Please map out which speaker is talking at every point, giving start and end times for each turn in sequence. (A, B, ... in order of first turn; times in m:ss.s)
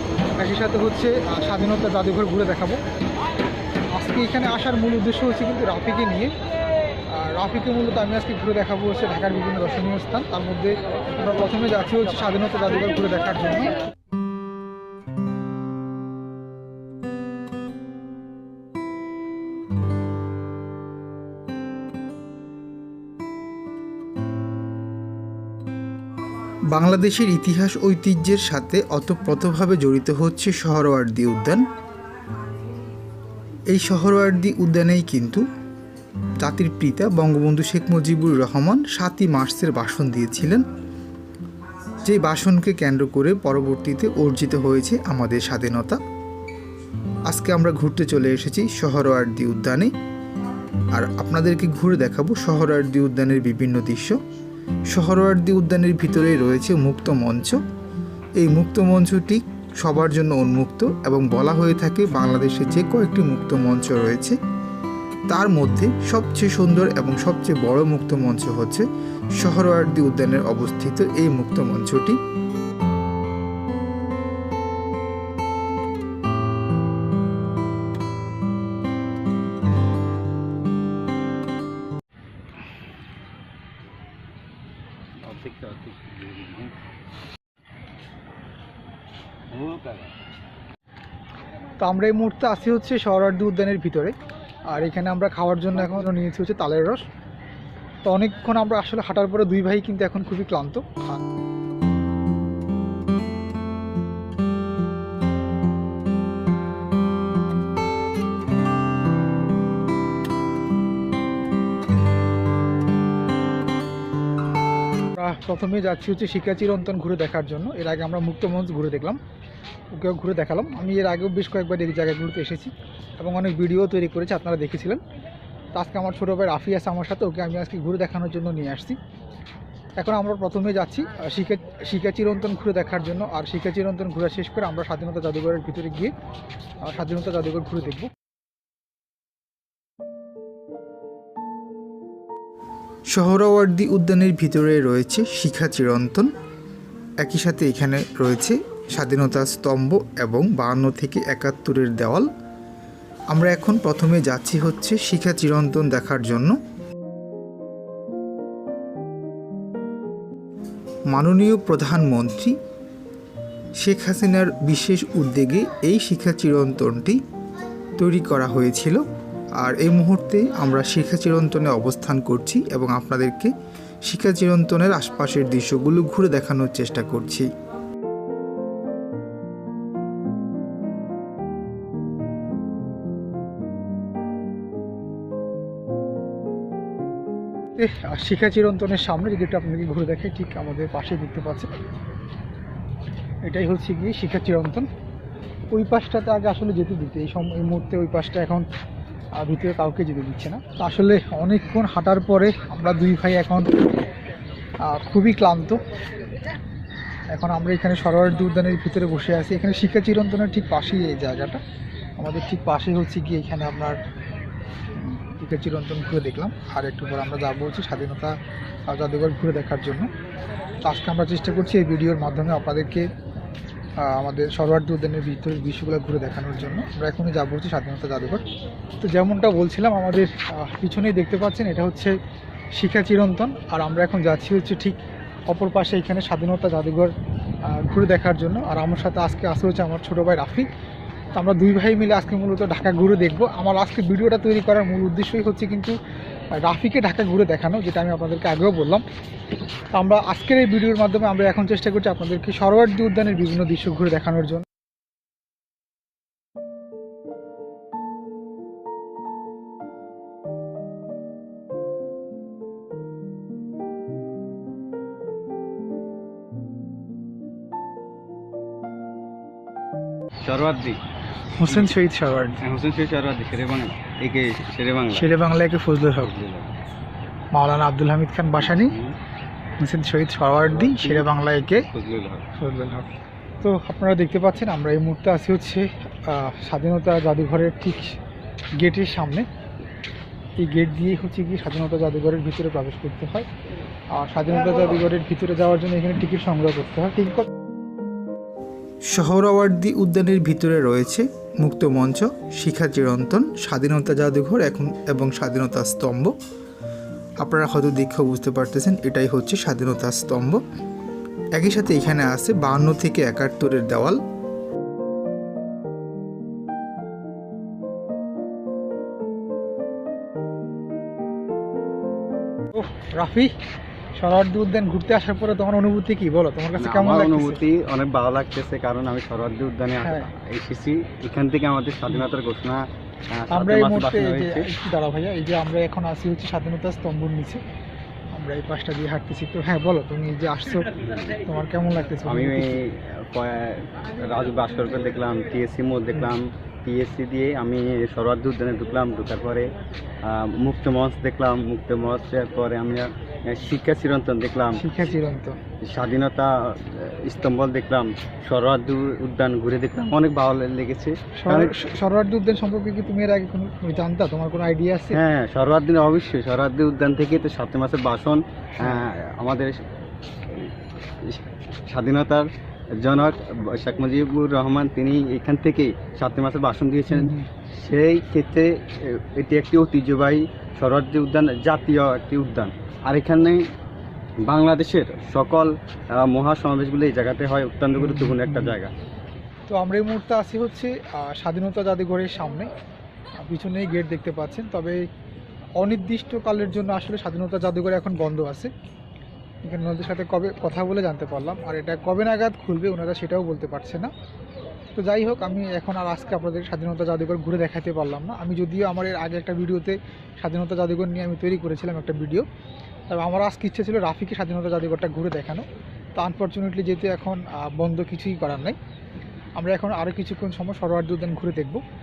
0:00.4-0:02.8 A
0:03.9-0:06.3 A
0:07.1-0:13.7 A
0:26.7-0:31.7 B
0:33.7-0:35.4 B
0:36.4-0:40.6 B
0:42.0-0:46.0 B
0:47.3-0:49.9 B
0:50.9-0:54.2 B
0:54.9-0:57.6 B
0:58.4-1:04.4 B
1:05.3-1:08.8 B
1:09.4-1:12.2 B
1:25.2-1:26.8 C
1:29.5-1:30.1 C
1:31.8-1:34.1 A
1:34.7-1:37.0 A
1:38.0-1:41.2 A
1:55.2-1:59.2 A
1:59.9-2:05.0 A
2:05.7-2:09.0 A
2:10.0-2:16.1 A
2:16.8-2:18.1 A
2:23.1-2:26.3 B
2:27.2-2:32.3 B
2:33.3-2:36.6 B
2:41.1-2:42.6 B
2:43.8-2:47.2 B
2:48.0-2:49.0 B
2:49.6-2:53.5 B
2:54.0-2:57.5 B
3:07.7-3:11.7 A
3:13.4-3:14.9 A
3:15.7-3:18.6 A
3:19.4-3:23.7 A
3:24.8-3:25.8 A
3:27.3-3:31.6 A
3:32.2-3:34.0 A
3:35.0-3:38.3 A
3:38.9-3:40.1 A
3:40.8-3:43.0 A
3:44.0-3:48.4 A
3:49.0-3:52.1 A
3:52.8-3:57.1 A
3:57.6-4:00.7 A
4:01.3-4:06.0 A
4:06.6-4:09.0 A
4:09.9-4:14.6 A
4:30.4-4:31.0 C
4:31.6-4:32.6 A
4:31.6-4:31.9 C
4:32.6-4:35.3 C
4:35.1-4:36.3 A
4:36.2-4:36.7 C
4:37.5-4:38.9 A
4:38.6-4:39.2 C
4:39.8-4:41.8 A
4:40.7-4:42.5 C
4:42.6-4:43.1 A
4:43.6-4:48.2 A
4:48.8-4:49.4 A
4:50.6-4:53.5 A
4:54.2-4:57.5 A
4:59.1-5:06.3 B
5:07.4-5:10.6 B
5:11.6-5:14.2 B
5:22.7-5:23.5 A
5:24.2-5:27.6 A
5:26.8-5:34.7 C
5:30.0-5:30.3 A
5:33.5-5:37.6 A
5:38.3-5:42.8 A
5:41.0-5:41.3 C
5:42.2-5:49.7 C
5:50.2-5:54.8 C
5:54.8-5:55.6 A
5:55.8-6:01.7 C
6:01.4-6:05.2 A
6:05.1-6:09.8 C
6:08.8-6:09.0 A
6:10.4-6:23.6 C
6:17.1-6:17.5 A
6:24.4-6:28.9 C
6:28.0-6:28.8 A
6:29.7-6:32.7 A
6:33.4-6:35.0 A
6:35.8-6:38.7 A
6:39.6-6:44.1 A
6:44.9-6:52.4 A
6:53.1-6:55.6 A
6:56.2-6:58.8 A
6:59.6-7:01.8 A